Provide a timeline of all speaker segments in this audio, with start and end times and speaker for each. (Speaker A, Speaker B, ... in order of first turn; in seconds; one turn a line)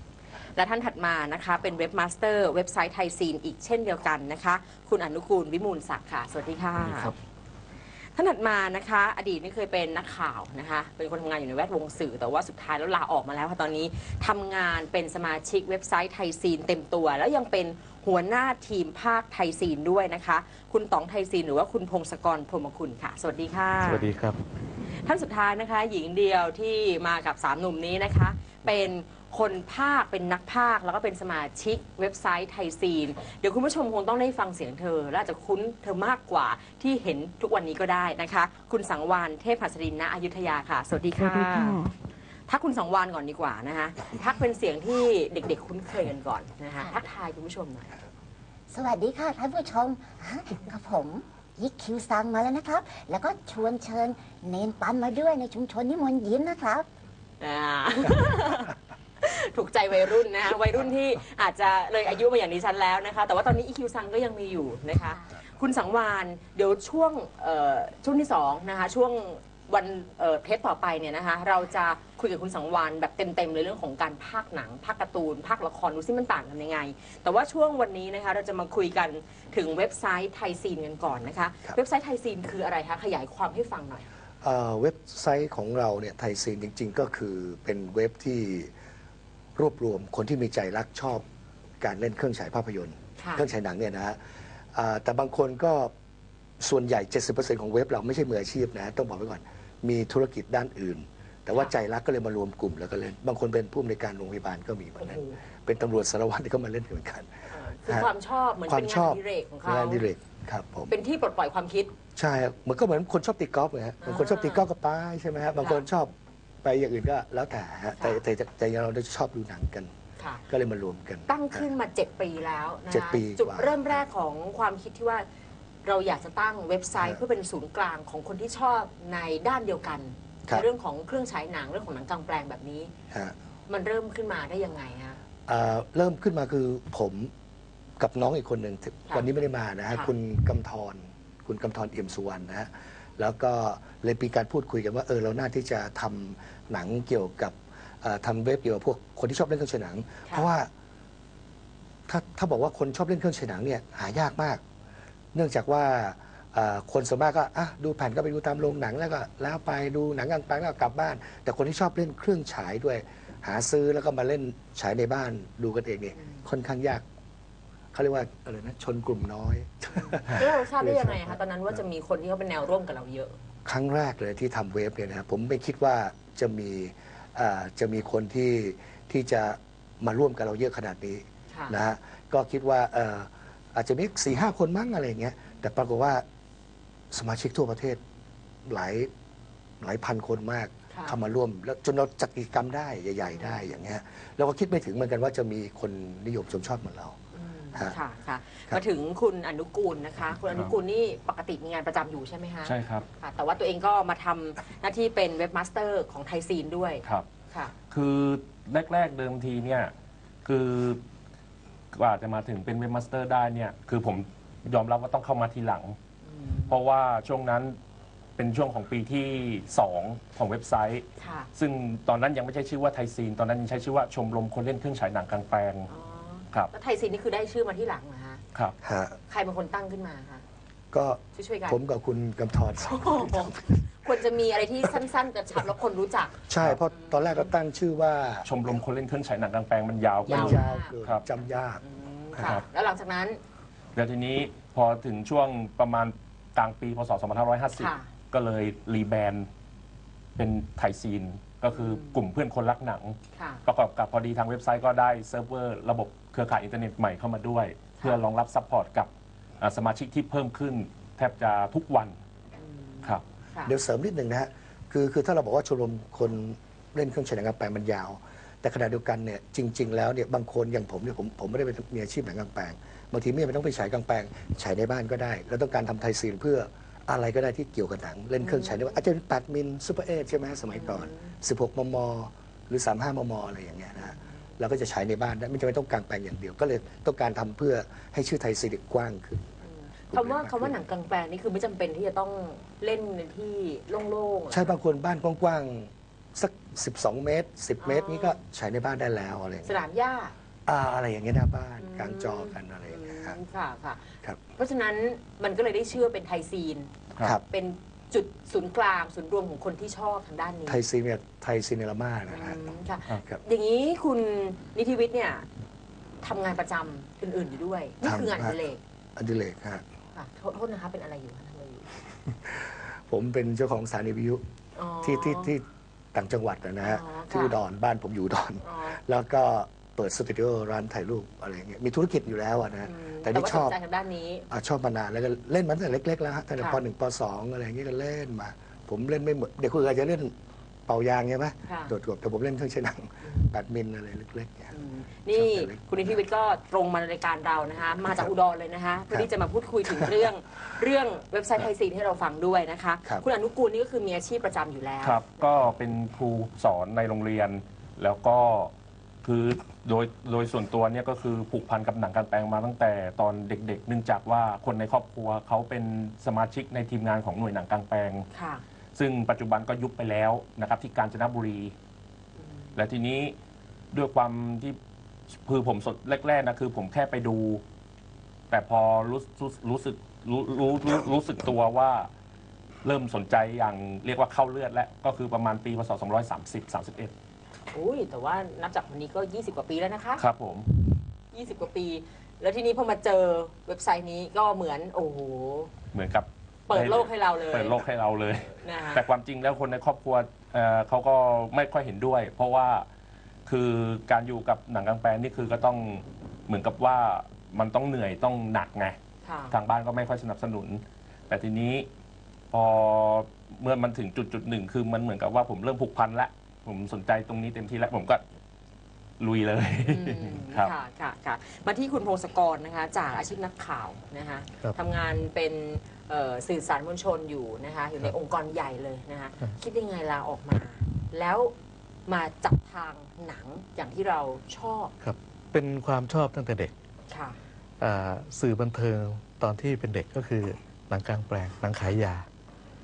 Speaker A: 0.5-7.1
Speaker B: 6.8-7.1
Speaker A: 8.1-24.1
Speaker C: 23.8-24.4
Speaker A: 24.9-41.9
Speaker A: 42.5-48.0
Speaker D: 48.7-56.9
Speaker A: 57.4-84.0
Speaker B: 84.4-88.7
Speaker B: 89.5-91.2
Speaker B: 91.8-94.2
Speaker A: 93.2-93.5
Speaker B: 94.7-95.9
Speaker B: 96.6-108.1
Speaker A: 105.0-105.4
Speaker A: 107.5-110.0
Speaker B: 108.7-110.9
Speaker A: 110.9-111.9
Speaker B: 112.2-119.9
Speaker A: 114.0-114.7
Speaker A: 118.0-118.2
Speaker A: 120.2-120.4
Speaker B: 120.5-121.7
Speaker A: 121.3-125.2
Speaker B: 122.9-124.0
Speaker A: 125.8-132.9
Speaker A: 133.7-135.2
Speaker B: 135.5-137.3
Speaker B: 138.0-150.7
Speaker B: 152.1-154.6
Speaker B: 155.3-167.0
Speaker A: 166.1-166.4
Speaker B: 167.9-171.8
Speaker A: 170.0-173.4
Speaker B: 173.6-186.2
Speaker A: 181.5-181.8
Speaker B: 187.1-188.0
Speaker B: 188.6-189.1
Speaker B: 189.8-197.2
Speaker A: 190.9-191.2
Speaker A: 193.3-193.8
Speaker A: 197.3-207.7
Speaker E: 200.4-200.7
Speaker E: 202.6-203.1
Speaker E: 207.9-209.9
Speaker E: 210.4-211.0
Speaker E: 211.9-215.9
Speaker A: 216.2-216.8
Speaker E: 216.7-217.8
Speaker E: 218.4-225.9
Speaker A: 221.2-221.5
Speaker A: 225.9-228.4
Speaker B: 228.8-229.2
Speaker A: 229.3-230.4
Speaker B: 230.9-233.8
Speaker A: 231.3-231.8
Speaker A: 232.9-236.4
Speaker B: 236.5-238.8
Speaker A: 236.9-237.5
Speaker E: 238.4-241.2
Speaker A: 240.3-240.9
Speaker B: 240.3-241.8
Speaker A: 241.8-243.4
Speaker E: 243.9-249.5
Speaker A: 247.7-248.1
Speaker E: 250.4-262.1
Speaker A: 251.7-252.2
Speaker A: 253.3-253.6
Speaker A: 262.6-263.8
Speaker B: 263.6-289.4
Speaker A: 278.4-279.0
Speaker A: 280.7-281.3
Speaker A: 284.0-284.3
Speaker A: 289.6-294.7
Speaker B: 290.1-290.8
Speaker B: 294.5-299.7
Speaker A: 297.8-298.4
Speaker A: 299.6-300.3
Speaker B: 300.6-303.4
Speaker A: 301.8-306.9
Speaker B: 307.2-307.4
Speaker A: 307.5-310.8
Speaker B: 310.6-313.4
Speaker A: 312.3-315.4
Speaker A: 316.2-318.8
Speaker B: 318.0-318.6
Speaker B: 319.1-319.8
Speaker A: 320.1-321.9
Speaker B: 322.4-324.4
Speaker A: 324.7-325.5
Speaker B: 325.0-333.8
Speaker A: 326.8-327.6
Speaker A: 328.6-329.0
Speaker A: 332.8-334.5
Speaker B: 334.5-340.3
Speaker B: 340.9-344.7
Speaker A: 341.6-341.9
Speaker A: 343.2-343.5
Speaker A: 344.7-355.7
Speaker B: 345.3-346.1
Speaker E: 355.0-358.7
Speaker E: 359.2-368.3
Speaker A: 368.3-368.6
Speaker E: 368.9-371.7
Speaker A: 372.4-372.8
Speaker E: 372.8-373.3
Speaker E: 373.9-374.8
Speaker E: 375.4-377.6
Speaker E: 378.5-382.1
Speaker E: 382.8-387.1
Speaker A: 387.7-390.2
Speaker E: 390.2-390.7
Speaker A: 391.3-395.7
Speaker E: 395.9-402.9
Speaker A: 396.7-397.8
Speaker A: 398.6-399.0
Speaker E: 403.5-409.0
Speaker A: 409.2-409.5
Speaker E: 409.5-411.9
Speaker E: 412.5-418.2
Speaker E: 419.2-420.7
Speaker A: 419.9-431.5
Speaker A: 432.1-434.9
Speaker C: 435.0-436.7
Speaker A: 437.1-437.4
Speaker C: 437.8-442.2